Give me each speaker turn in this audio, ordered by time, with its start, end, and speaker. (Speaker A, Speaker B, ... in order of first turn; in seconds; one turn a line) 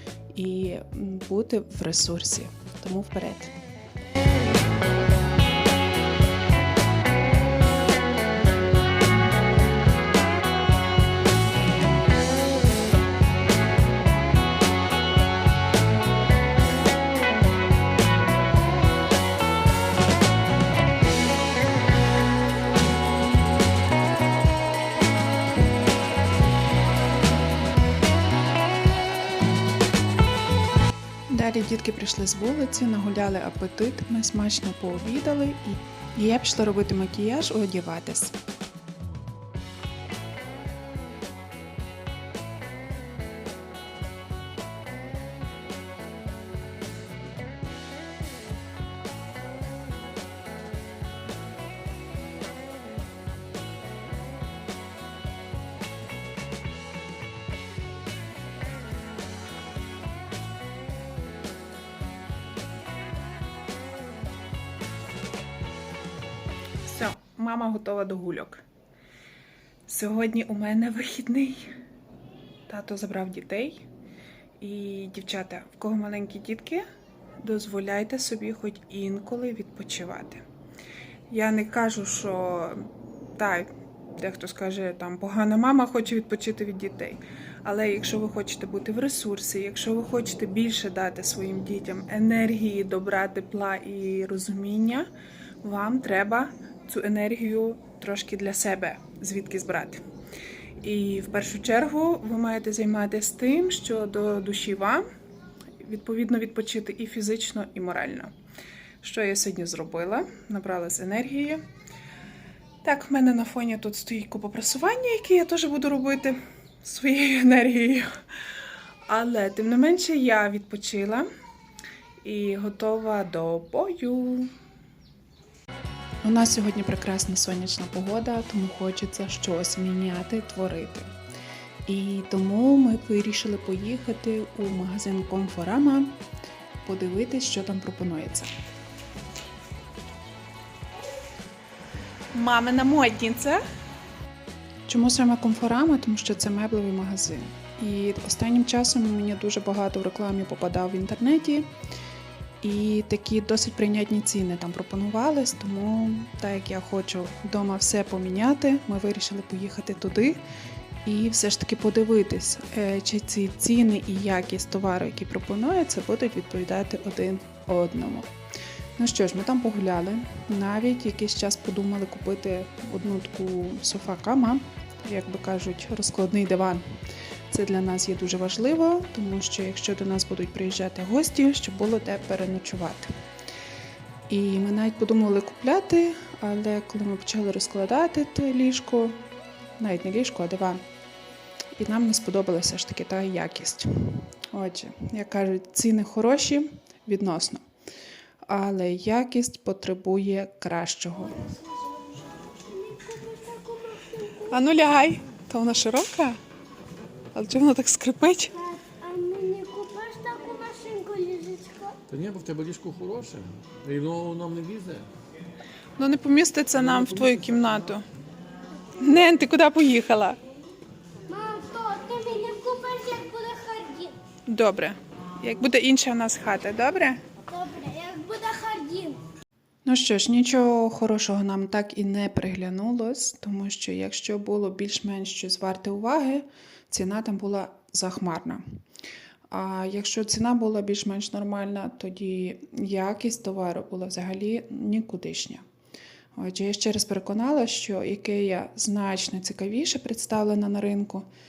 Speaker A: 0.3-3.5
Speaker A: 31.3-38.3
Speaker A: 66.8-68.6
Speaker A: 69.8-71.7
Speaker A: 72.7-73.8
Speaker A: 74.6-76.8
Speaker A: 77.4-80.4
Speaker A: 81.3-82.8
Speaker A: 83.4-95.1
Speaker A: 95.6-100.0
Speaker A: 100.8-105.0
Speaker A: 105.8-108.3
Speaker A: 109.0-111.6
Speaker A: 112.8-118.1
Speaker A: 119.0-121.3
Speaker A: 122.2-124.5
Speaker A: 126.2-131.1
Speaker A: 131.8-136.2
Speaker A: 136.8-138.5
Speaker A: 142.3-143.6
Speaker A: 144.9-151.7
Speaker A: 152.6-160.4
Speaker A: 161.0-168.3
Speaker A: 169.0-176.8
Speaker A: 177.5-183.1
Speaker A: 184.3-189.2
Speaker A: 189.8-190.8
Speaker A: 191.7-197.6
Speaker A: 198.4-201.5
Speaker B: 201.4-204.6
Speaker A: 204.4-206.4
Speaker A: 207.3-208.7
Speaker B: 208.7-212.0
Speaker C: 212.2-215.1
Speaker A: 216.0-218.1
Speaker A: 219.0-220.4
Speaker B: 221.3-224.2
Speaker A: 224.4-227.2
Speaker B: 227.4-229.2
Speaker A: 229.8-238.6
Speaker A: 239.5-245.6
Speaker A: 246.3-251.2